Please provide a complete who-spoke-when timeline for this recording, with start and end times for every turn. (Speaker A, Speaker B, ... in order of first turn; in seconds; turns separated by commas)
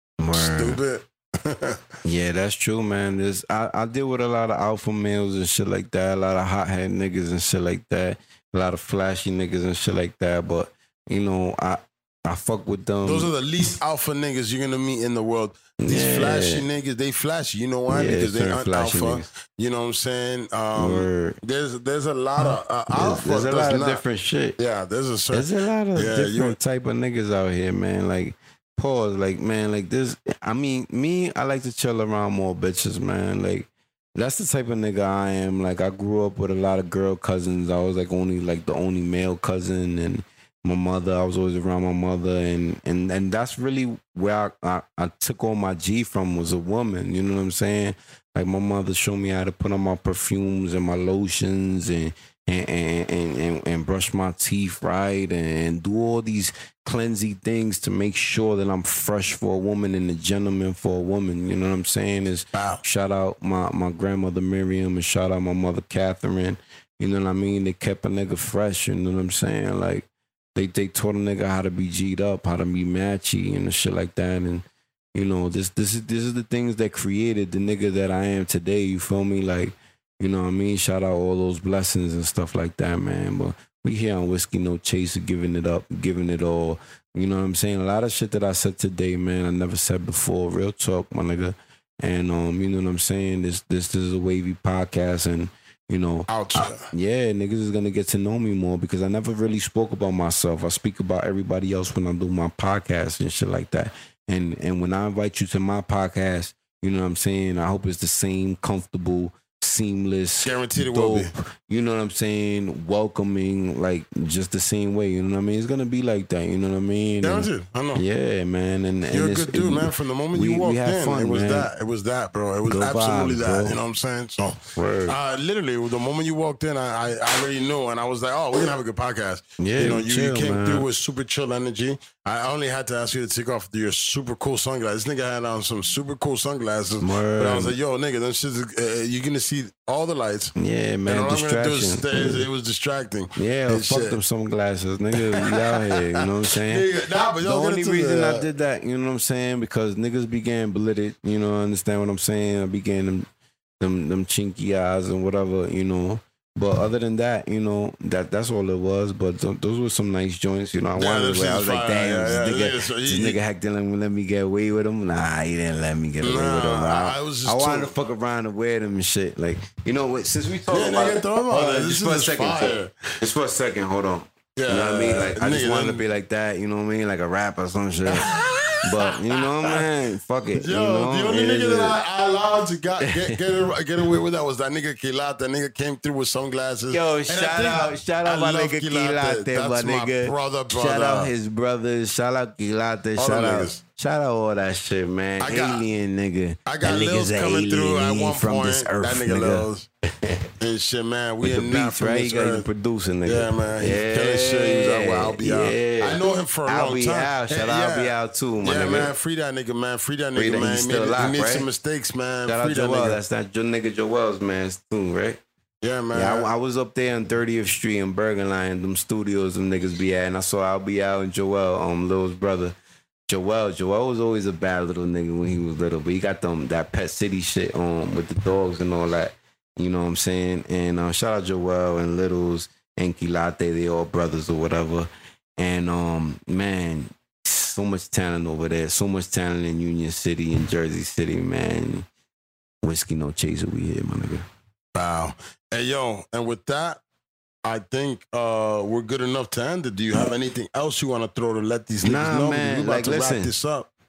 Speaker A: 0.2-0.8, Speaker B: 0.3-1.8, Speaker A: 2.0-13.3, Speaker B: 13.0-24.0, Speaker A: 15.8-16.6, Speaker A: 17.9-19.2, Speaker A: 20.7-21.4, Speaker A: 22.9-24.6, Speaker B: 24.6-26.6, Speaker A: 25.3-121.7, Speaker B: 62.5-62.8, Speaker B: 96.3-96.9, Speaker B: 110.4-111.3, Speaker B: 117.2-118.0, Speaker B: 119.1-140.5, Speaker A: 122.7-123.8, Speaker A: 124.8-125.2, Speaker A: 129.6-130.8, Speaker A: 137.0-137.7, Speaker A: 140.6-142.4, Speaker B: 141.1-144.2, Speaker A: 143.3-146.9, Speaker B: 145.2-148.5, Speaker A: 147.4-153.3, Speaker A: 153.8-178.3, Speaker B: 160.9-163.4, Speaker B: 166.2-167.9, Speaker B: 170.7-173.2, Speaker B: 174.6-176.0, Speaker B: 178.1-179.8, Speaker A: 178.8-182.0, Speaker B: 180.5-191.3, Speaker A: 183.0-183.4, Speaker A: 186.9-200.5, Speaker B: 193.2-193.8, Speaker B: 195.4-195.8, Speaker B: 196.7-199.9, Speaker B: 200.6-202.7, Speaker A: 201.4-209.1, Speaker B: 203.2-213.2, Speaker A: 210.3-211.7, Speaker A: 212.5-215.4, Speaker B: 215.8-216.5, Speaker A: 216.1-222.7, Speaker A: 223.3-242.1, Speaker A: 242.8-244.4, Speaker B: 244.9-247.0, Speaker B: 247.6-253.9, Speaker A: 252.0-253.5